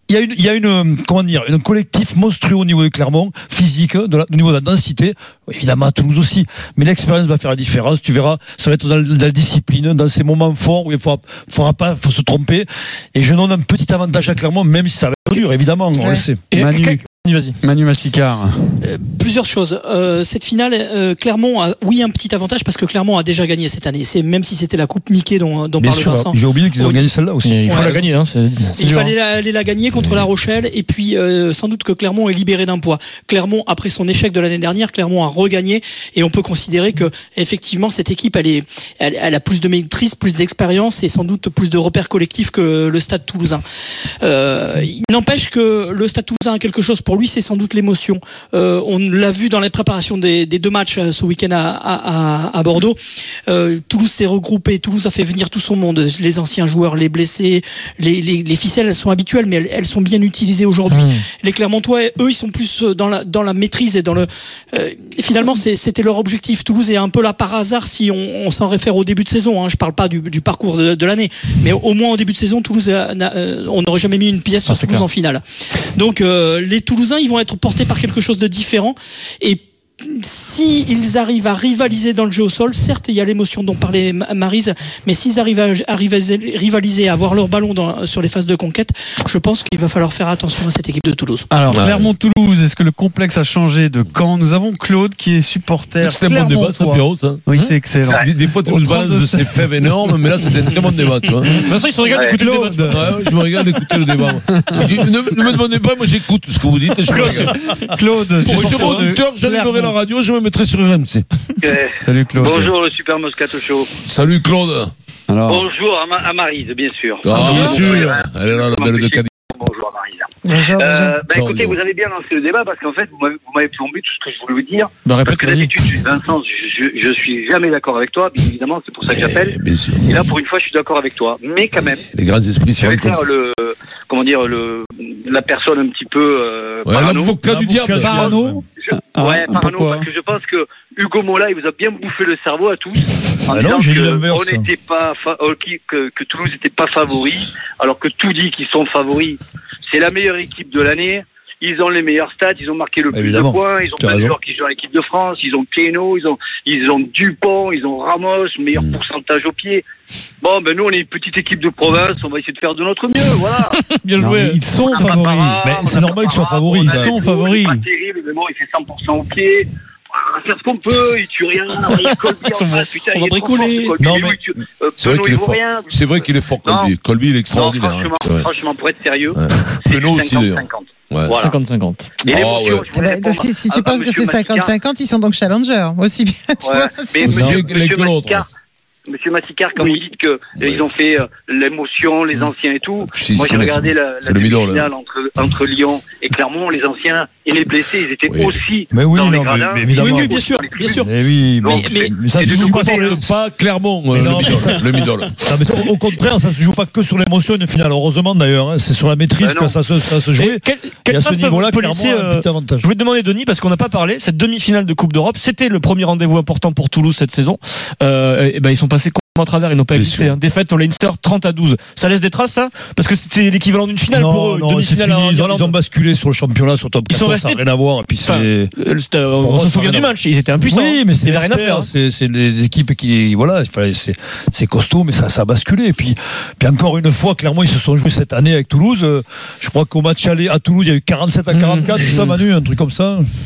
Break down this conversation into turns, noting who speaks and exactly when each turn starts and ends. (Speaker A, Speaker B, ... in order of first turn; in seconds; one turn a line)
Speaker A: 0.1-16.4
Speaker B: 15.9-16.3
Speaker C: 16.5-17.6
Speaker D: 16.5-17.0
Speaker D: 17.6-18.6
Speaker E: 18.8-27.1
Speaker A: 25.8-28.1
Speaker C: 27.4-29.1
Speaker E: 27.6-28.1
Speaker E: 28.7-43.6
Speaker E: 44.2-75.4
Speaker C: 74.7-75.0
Speaker E: 75.9-91.5
Speaker D: 91.5-99.9
Speaker F: 91.7-92.1
Speaker F: 96.0-101.7
Speaker G: 98.0-98.3
Speaker C: 101.7-102.9
Speaker G: 102.1-102.4
Speaker D: 102.2-103.1
Speaker F: 102.9-107.7
Speaker D: 104.5-104.8
Speaker D: 107.5-110.0
Speaker F: 108.4-111.3
Speaker G: 111.6-113.9
Speaker D: 112.0-112.7
Speaker F: 114.0-114.9
Speaker D: 115.3-115.7
Speaker G: 115.5-132.0
Speaker F: 117.2-119.3
Speaker B: 120.5-121.2
Speaker F: 121.2-121.8
Speaker C: 125.0-125.7
Speaker F: 129.0-130.4
Speaker F: 131.7-133.3
Speaker G: 132.8-137.4
Speaker F: 136.8-138.4
Speaker A: 137.4-138.6
Speaker D: 138.0-140.1
Speaker G: 138.8-159.8
Speaker A: 143.5-144.7
Speaker A: 153.1-154.4
Speaker F: 158.7-159.0
Speaker G: 160.4-163.8
Speaker C: 163.6-164.6
Speaker D: 164.2-165.6
Speaker G: 164.6-176.9
Speaker A: 165.6-167.2
Speaker D: 166.7-167.8
Speaker C: 171.8-172.8
Speaker E: 173.0-174.1
Speaker A: 174.0-174.4
Speaker F: 175.0-178.5
Speaker G: 177.5-181.5
Speaker F: 179.3-181.5
Speaker C: 181.4-182.1
Speaker G: 182.2-184.7
Speaker F: 182.2-183.0
Speaker B: 183.0-187.5
Speaker G: 186.6-188.5
Speaker F: 187.2-188.5
Speaker G: 189.1-201.0
Speaker F: 190.6-190.9
Speaker F: 192.3-194.9
Speaker F: 198.2-198.6
Speaker A: 198.9-203.3
Speaker E: 200.0-203.2
Speaker G: 201.6-202.1
Speaker F: 202.4-205.5
Speaker A: 204.1-204.8
Speaker A: 205.4-212.9
Speaker G: 209.4-210.2
Speaker C: 210.4-225.8
Speaker A: 224.1-228.7
Speaker C: 227.1-231.9
Speaker A: 229.4-230.1
Speaker A: 230.7-243.3